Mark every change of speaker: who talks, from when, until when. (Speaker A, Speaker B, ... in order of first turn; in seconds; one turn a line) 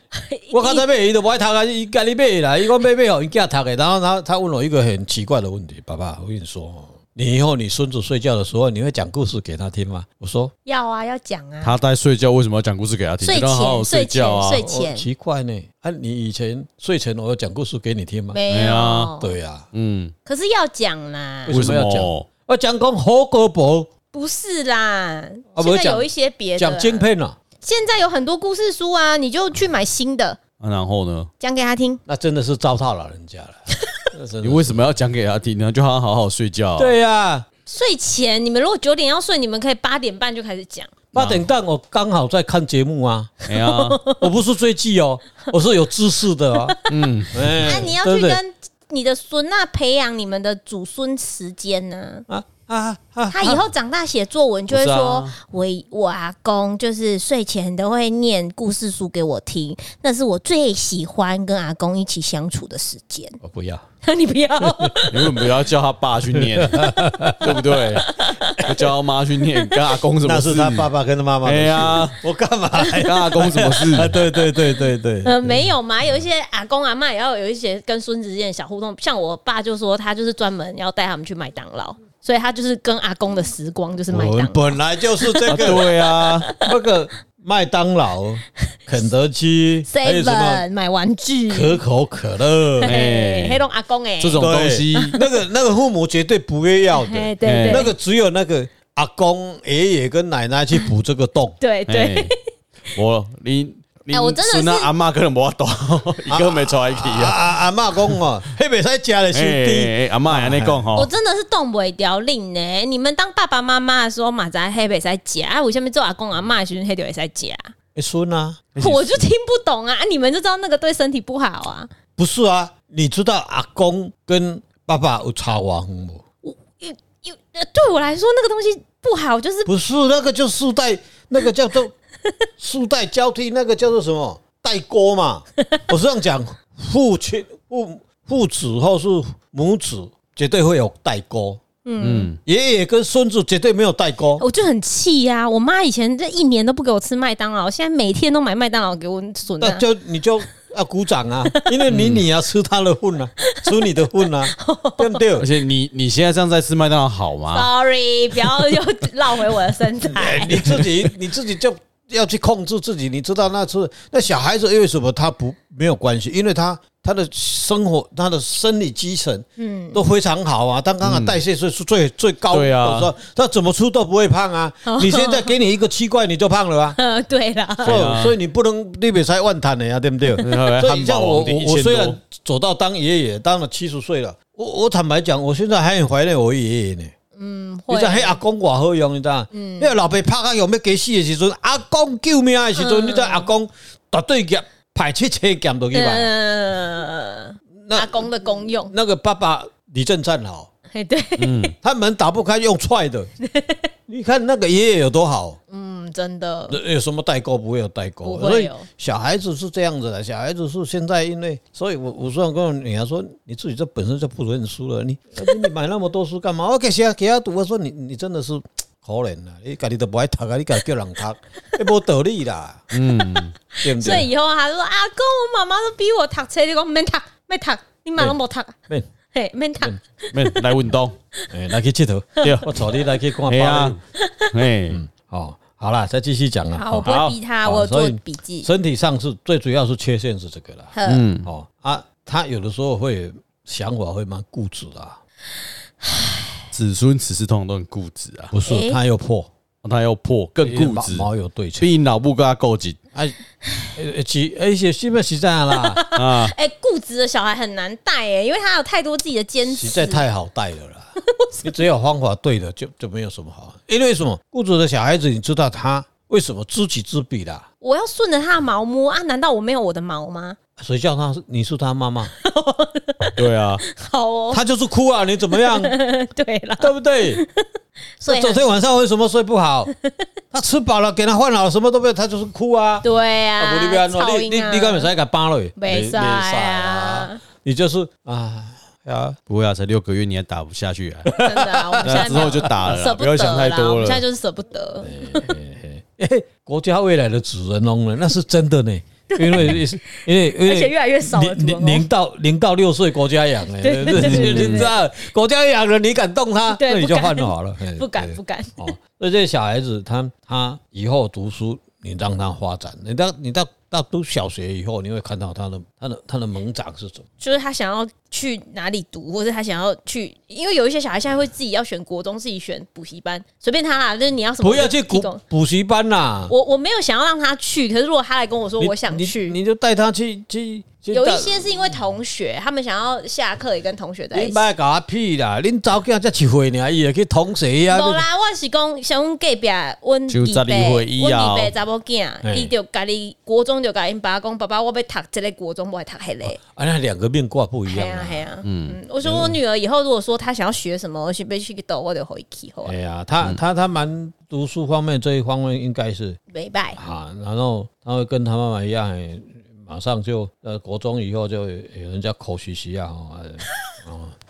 Speaker A: 0.1-0.8
Speaker B: 0.5-10.5
Speaker A: 10.7-11.7
Speaker C: 11.6-14.6
Speaker A: 13.2-15.1
Speaker B: 14.6-18.4
Speaker A: 18.3-19.4
Speaker C: 18.5-19.1
Speaker B: 19.2-19.7
Speaker C: 19.7-20.1
Speaker A: 20.2-21.5
Speaker B: 21.4-23.9
Speaker C: 21.5-22.3
Speaker A: 24.1-27.1
Speaker B: 25.5-27.4
Speaker A: 27.6-30.4
Speaker C: 30.6-31.3
Speaker A: 31.4-32.0
Speaker B: 32.1-33.6
Speaker B: 34.1-34.9
Speaker C: 34.4-36.9
Speaker B: 36.8-37.5
Speaker A: 37.6-41.0
Speaker B: 41.1-43.3
Speaker C: 41.1-41.4
Speaker C: 43.5-44.0
Speaker A: 43.5-44.3
Speaker B: 44.2-46.8
Speaker C: 46.9-47.4
Speaker B: 47.3-48.4
Speaker A: 47.5-52.2
Speaker B: 52.3-53.6
Speaker A: 53.3-63.4
Speaker B: 54.7-55.2
Speaker C: 55.0-55.3
Speaker B: 63.4-63.8
Speaker A: 64.0-65.5
Speaker B: 64.6-64.9
Speaker C: 65.1-70.9
Speaker B: 66.3-67.6
Speaker A: 67.6-68.7
Speaker B: 70.2-75.7
Speaker C: 71.4-72.2
Speaker C: 72.9-74.2
Speaker A: 75.2-86.7
Speaker B: 84.1-85.9
Speaker C: 85.5-86.5
Speaker B: 86.6-90.6
Speaker A: 89.9-91.8
Speaker B: 91.5-93.0
Speaker A: 92.8-95.3
Speaker C: 92.8-93.6
Speaker C: 94.2-95.1
Speaker B: 94.4-101.6
Speaker A: 96.9-97.9
Speaker C: 97.4-97.9
Speaker A: 101.6-102.4
Speaker C: 101.9-102.3
Speaker C: 102.9-107.4
Speaker A: 104.1-104.9
Speaker B: 106.3-110.8
Speaker C: 109.3-111.1
Speaker A: 110.9-117.7
Speaker B: 117.9-118.7
Speaker C: 118.8-119.3
Speaker A: 118.8-121.9
Speaker B: 122.2-126.2
Speaker A: 126.4-129.7
Speaker B: 129.7-131.9
Speaker B: 132.6-141.6
Speaker A: 141.8-142.3
Speaker C: 142.0-142.4
Speaker B: 142.4-144.4
Speaker A: 144.4-149.8
Speaker B: 149.6-155.5
Speaker A: 151.5-151.8
Speaker C: 151.9-152.2
Speaker A: 153.4-155.2
Speaker C: 155.4-157.7
Speaker A: 157.5-160.9
Speaker B: 160.1-177.0
Speaker A: 169.6-170.0
Speaker C: 171.0-171.4
Speaker C: 172.5-173.1
Speaker A: 174.8-175.5
Speaker A: 177.0-178.0
Speaker C: 177.8-178.3
Speaker B: 177.8-187.1
Speaker C: 180.4-182.2
Speaker A: 187.3-188.4
Speaker B: 187.9-196.3
Speaker A: 189.5-189.9
Speaker A: 192.8-193.5
Speaker A: 195.9-198.9
Speaker B: 197.8-200.7
Speaker A: 200.9-201.7
Speaker C: 201.4-201.7
Speaker B: 201.8-203.3
Speaker A: 203.4-203.9
Speaker B: 204.1-205.6
Speaker A: 205.7-206.8
Speaker B: 206.7-222.9
Speaker A: 208.2-208.9
Speaker C: 222.9-223.5
Speaker A: 223.7-228.8
Speaker B: 223.8-224.3
Speaker A: 229.3-230.6
Speaker C: 230.3-231.1
Speaker B: 231.5-234.0
Speaker C: 232.4-232.7
Speaker C: 233.5-234.0
Speaker A: 234.2-234.5
Speaker C: 234.5-235.0
Speaker B: 234.9-245.2
Speaker A: 236.7-238.7
Speaker A: 240.9-241.2
Speaker C: 241.1-241.5
Speaker A: 246.0-246.4
Speaker C: 246.7-248.5
Speaker B: 248.5-249.5
Speaker A: 248.7-249.0
Speaker C: 249.8-251.3
Speaker B: 250.6-251.9
Speaker C: 251.8-253.0
Speaker B: 253.9-256.0
Speaker A: 255.7-260.2
Speaker C: 256.1-256.5
Speaker B: 259.7-267.6
Speaker A: 261.2-261.7
Speaker A: 267.8-270.6
Speaker B: 270.8-272.3
Speaker A: 272.4-274.6
Speaker C: 273.4-273.8
Speaker B: 274.5-275.9
Speaker A: 275.5-277.6
Speaker B: 276.8-277.4
Speaker A: 278.2-278.6
Speaker B: 278.3-279.9
Speaker B: 280.5-283.1
Speaker A: 283.0-285.1
Speaker B: 283.6-289.4
Speaker A: 285.8-287.4
Speaker C: 289.5-291.3
Speaker B: 291.2-292.7
Speaker A: 291.4-295.6
Speaker C: 292.0-294.2
Speaker B: 295.0-317.2
Speaker A: 299.3-302.1
Speaker A: 303.8-305.0
Speaker C: 304.1-304.9
Speaker A: 306.7-308.9
Speaker A: 317.4-325.4
Speaker B: 324.6-326.5
Speaker A: 326.5-329.6
Speaker B: 328.8-331.8
Speaker A: 331.1-334.6
Speaker B: 334.3-338.2
Speaker A: 337.9-346.6
Speaker C: 340.3-341.7
Speaker B: 342.4-342.7
Speaker B: 346.6-348.4
Speaker A: 347.9-352.9
Speaker C: 348.6-349.0
Speaker B: 349.2-349.6
Speaker B: 352.8-356.4
Speaker A: 356.5-357.0
Speaker B: 356.9-364.3